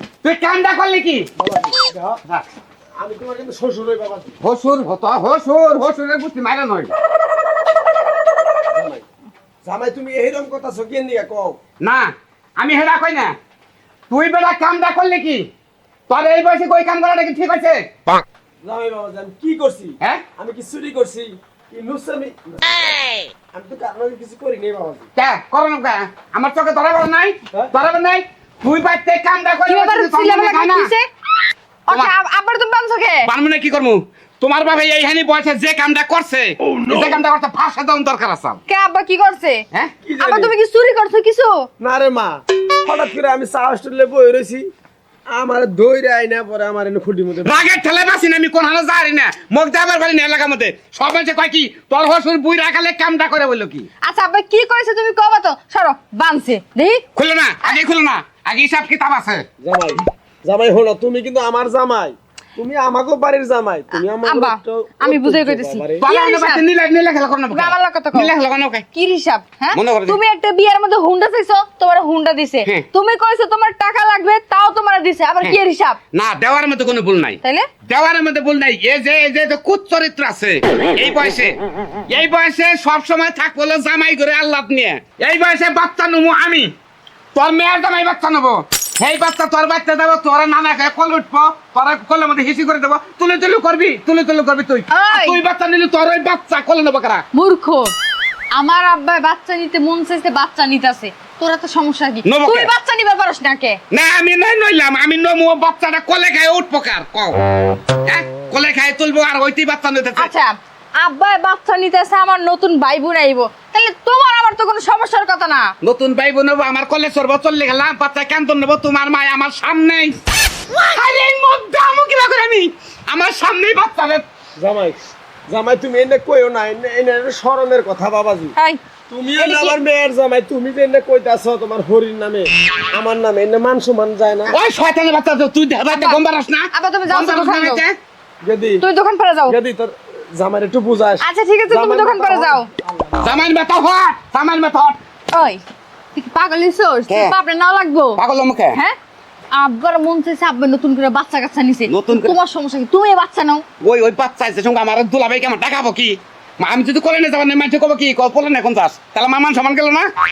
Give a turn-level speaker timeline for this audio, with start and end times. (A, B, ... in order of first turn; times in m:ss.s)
0:00.2-0:01.3 A
0:01.4-0:02.2 B
0:03.0-0:04.4 B
0:04.4-0:06.9 A
0:08.7-0:09.0 B
0:09.6-0:11.6 B
0:11.8-0:13.3 A
0:14.1-0:15.4 A
0:16.1-0:17.8 A
0:18.6-0:22.9 B
0:23.5-0:25.1 B
0:25.2-0:30.9 A
0:29.7-0:31.0 C
0:31.9-0:33.3 C
0:33.3-0:38.6 A
0:36.8-0:37.2 B
0:38.7-0:39.6 C
0:40.0-0:40.5 B
0:40.2-0:41.7 C
0:41.8-0:44.6 B
0:45.3-0:47.8 B
0:47.4-0:53.9 A
0:54.0-0:57.0 C
0:57.2-0:59.4 A
0:59.6-1:06.0 B
1:03.9-1:06.6 C
1:06.0-1:08.8 A
1:07.5-1:08.3 C
1:08.9-1:16.0 C
1:09.7-1:10.2 A
1:16.1-1:21.6 A
1:17.4-1:17.7 C
1:22.1-1:26.7 A
1:27.3-1:37.2 A
1:34.9-1:35.4 C
1:37.3-1:37.9 C
1:38.5-1:43.8 C
1:42.2-1:42.7 A
1:43.9-1:47.3 A
1:48.0-1:50.3 A
1:50.2-1:55.7 C
1:55.8-2:00.2 A
2:00.7-2:04.2 A
2:04.6-2:05.0 B
2:05.5-2:08.5 B
2:09.1-2:14.6 B
2:09.4-2:09.7 C
2:14.5-2:18.0 A
2:15.9-2:16.2 C
2:16.7-2:17.8 C
2:18.4-2:18.8 B
2:18.8-2:19.6 C
2:19.5-2:23.3 B
2:21.2-2:22.7 C
2:23.2-2:25.0 A
2:25.3-2:25.6 C
2:26.1-2:28.2 C
2:27.1-2:27.3 A
2:28.2-2:28.8 A
2:29.5-2:33.6 C
2:31.9-2:32.3 A
2:33.8-2:40.1 A